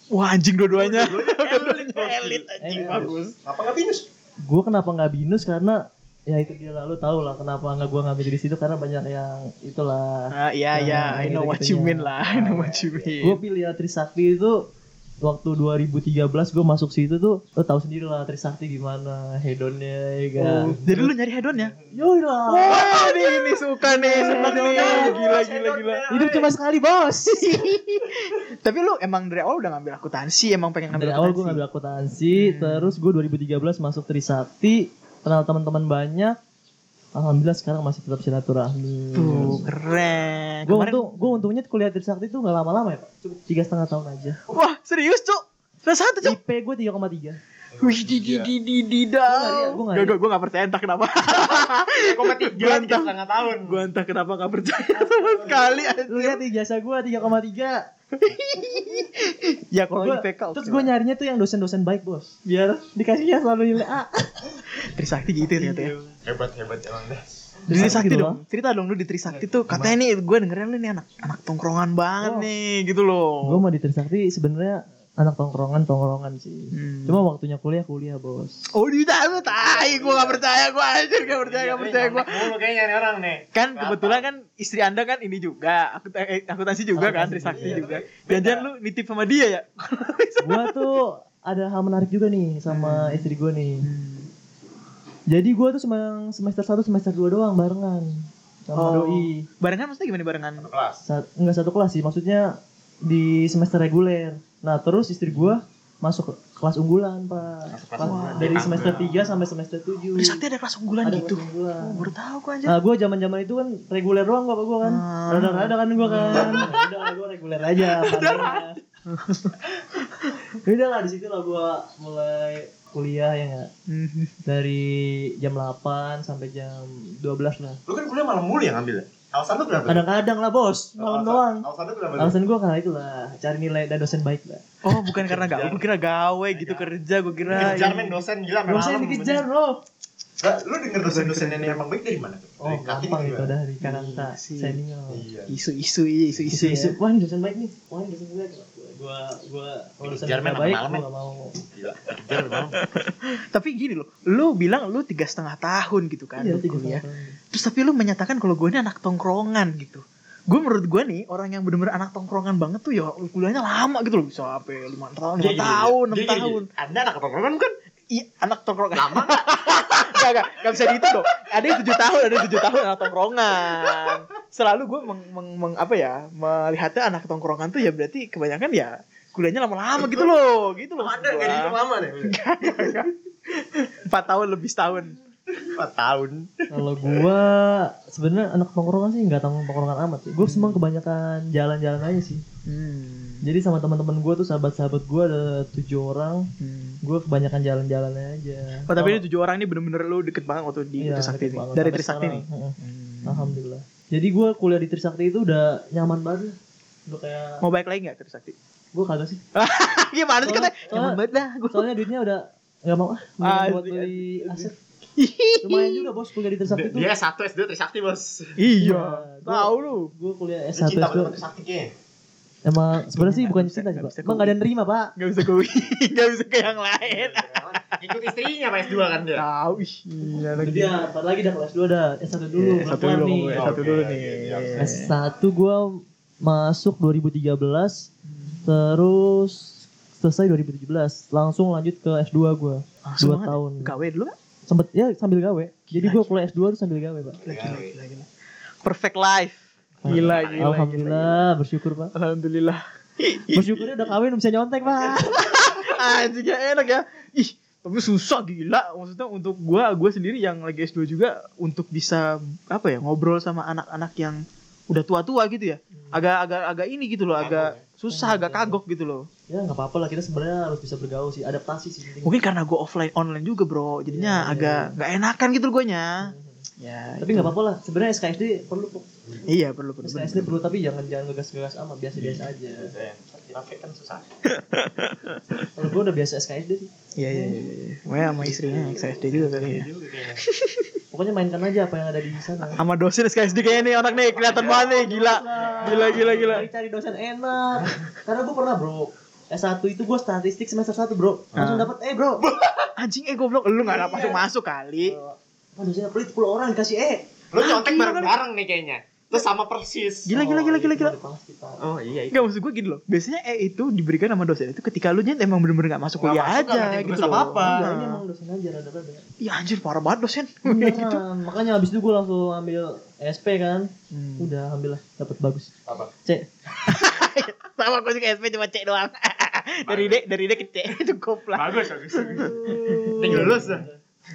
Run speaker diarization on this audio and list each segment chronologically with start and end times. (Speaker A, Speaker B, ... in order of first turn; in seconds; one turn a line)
Speaker A: 0.1-3.4
Speaker B: 0.7-4.0
Speaker C: 2.6-3.2
Speaker C: 4.4-12.5
Speaker A: 10.3-13.4
Speaker B: 12.2-13.2
Speaker C: 13.2-14.6
Speaker C: 15.2-21.1
Speaker A: 20.4-21.7
Speaker C: 21.8-23.1
Speaker A: 22.5-26.0
Speaker B: 22.7-23.3
Speaker C: 23.8-25.1
Speaker B: 24.2-26.5
Speaker C: 26.1-27.6
Speaker A: 27.3-31.6
Speaker C: 30.9-36.4
Speaker A: 32.3-33.0
Speaker C: 37.1-39.7
Speaker A: 39.1-41.4
Speaker C: 40.6-44.4
Speaker A: 44.5-46.4
Speaker C: 46.2-47.4
Speaker B: 47.7-48.5
Speaker A: 47.8-56.4
Speaker C: 49.3-50.2
Speaker B: 51.4-53.9
Speaker C: 55.0-55.5
Speaker C: 56.1-57.9
Speaker A: 58.1-60.9
Speaker C: 60.0-64.5
Speaker A: 64.8-65.9
Speaker B: 65.5-68.0
Speaker C: 67.7-68.4
Speaker A: 67.7-73.6
Speaker B: 69.3-69.7
Speaker C: 72.2-72.5
Speaker C: 73.4-78.6
Speaker A: 76.7-77.2
Speaker A: 78.7-82.5
Speaker B: 79.3-80.4
Speaker B: 81.2-84.2
Speaker A: 83.5-90.8
Speaker C: 86.9-88.0
Speaker B: 87.5-88.7
Speaker C: 90.4-93.9
Speaker A: 92.7-93.3
Speaker A: 93.8-94.3
Speaker C: 95.3-99.5
Speaker A: 98.7-100.7
Speaker B: 100.6-101.0
Speaker C: 101.0-110.4
Speaker A: 105.3-105.5
Speaker B: 107.7-109.1
Speaker A: 108.0-109.5
Speaker A: 110.2-112.7
Speaker C: 111.0-112.1
Speaker C: 112.7-118.8
Speaker A: 114.8-116.7
Speaker A: 117.9-119.6
Speaker C: 120.5-123.7
Speaker A: 123.9-124.3
Speaker C: 124.5-127.8
Speaker B: 127.8-130.1
Speaker C: 129.9-134.6
Speaker B: 131.0-132.3
Speaker A: 134.8-138.1
Speaker B: 135.2-135.8
Speaker B: 136.5-136.9
Speaker B: 137.4-139.4
Speaker C: 137.5-137.9
Speaker C: 138.7-139.8
Speaker B: 140.4-143.5
Speaker A: 141.0-141.8
Speaker C: 142.6-145.2
Speaker A: 143.8-144.8
Speaker B: 145.1-145.5
Speaker A: 145.5-147.0
Speaker C: 146.5-151.6
Speaker B: 150.0-151.0
Speaker B: 151.7-152.8
Speaker A: 152.8-166.7
Speaker C: 156.4-157.4
Speaker B: 165.4-167.7
Speaker A: 168.1-185.2
Speaker B: 168.9-172.6
Speaker B: 173.8-174.2
Speaker B: 180.0-180.3
Speaker B: 181.0-182.4
Speaker B: 185.5-187.2
Speaker C: 186.7-192.4
Speaker A: 190.4-190.8
Speaker A: 192.6-193.4
Speaker C: 193.4-196.5
Speaker A: 196.6-197.0
Speaker C: 197.0-199.2
Speaker A: 198.9-203.6
Speaker C: 201.0-207.6
Speaker A: 207.6-208.5
Speaker C: 208.9-209.4
Speaker A: 209.5-211.9
Speaker C: 210.4-214.8
Speaker A: 213.4-216.1
Speaker C: 215.6-217.1
Speaker B: 216.7-218.6
Speaker A: 218.6-220.1
Speaker C: 218.8-221.4
Speaker B: 220.8-221.9
Speaker C: 222.6-225.1
Speaker A: 223.0-224.5
Speaker A: 225.2-227.5
Speaker B: 227.0-229.4
Speaker A: 229.3-231.0
Speaker C: 230.6-233.8
Speaker A: 232.5-235.1
Speaker B: 233.5-234.9
Speaker C: 234.8-238.1
Speaker A: 238.2-238.6
Speaker C: 238.6-243.9
Speaker A: 243.0-244.3
Speaker C: 244.7-247.4
Speaker A: 245.9-246.3
Speaker B: 247.4-247.9
Speaker A: 247.4-248.2
Speaker A: 248.8-251.5
Speaker C: 250.0-252.1
Speaker B: 250.0-250.7
Speaker A: 252.1-254.0
Speaker C: 253.5-255.5
Speaker A: 254.9-264.4
Speaker A: 264.9-269.2
Speaker C: 265.9-266.2
Speaker B: 267.4-267.8
Speaker C: 268.1-268.8
Speaker C: 269.5-272.4
Speaker A: 272.2-277.5
Speaker C: 274.1-274.9
Speaker C: 276.2-276.6
Speaker C: 277.2-279.1
Speaker A: 279.4-280.6
Speaker C: 280.0-282.9
Speaker B: 282.2-284.2
Speaker A: 284.4-285.7
Speaker C: 285.7-287.6
Speaker A: 287.1-289.9
Speaker B: 288.5-290.4
Speaker A: 290.4-291.0
Speaker C: 291.1-292.8
Speaker A: 292.6-296.7
Speaker B: 294.2-296.5
Speaker C: 294.6-302.4
Speaker A: 301.6-301.9
Speaker B: 302.4-302.9
Speaker A: 303.0-305.2
Speaker C: 303.8-304.4
Speaker C: 305.0-307.3
Speaker B: 307.5-310.4
Speaker A: 307.6-308.3
Speaker A: 310.2-311.1
Speaker C: 310.3-311.8
Speaker B: 311.8-312.5
Speaker A: 312.3-318.2
Speaker B: 316.2-317.9
Speaker C: 317.6-319.2
Speaker A: 319.4-321.2
Speaker C: 320.6-325.7
Speaker A: 324.1-324.5
Speaker A: 326.8-333.8
Speaker B: 329.8-330.2
Speaker B: 331.5-333.9
Speaker C: 332.1-334.0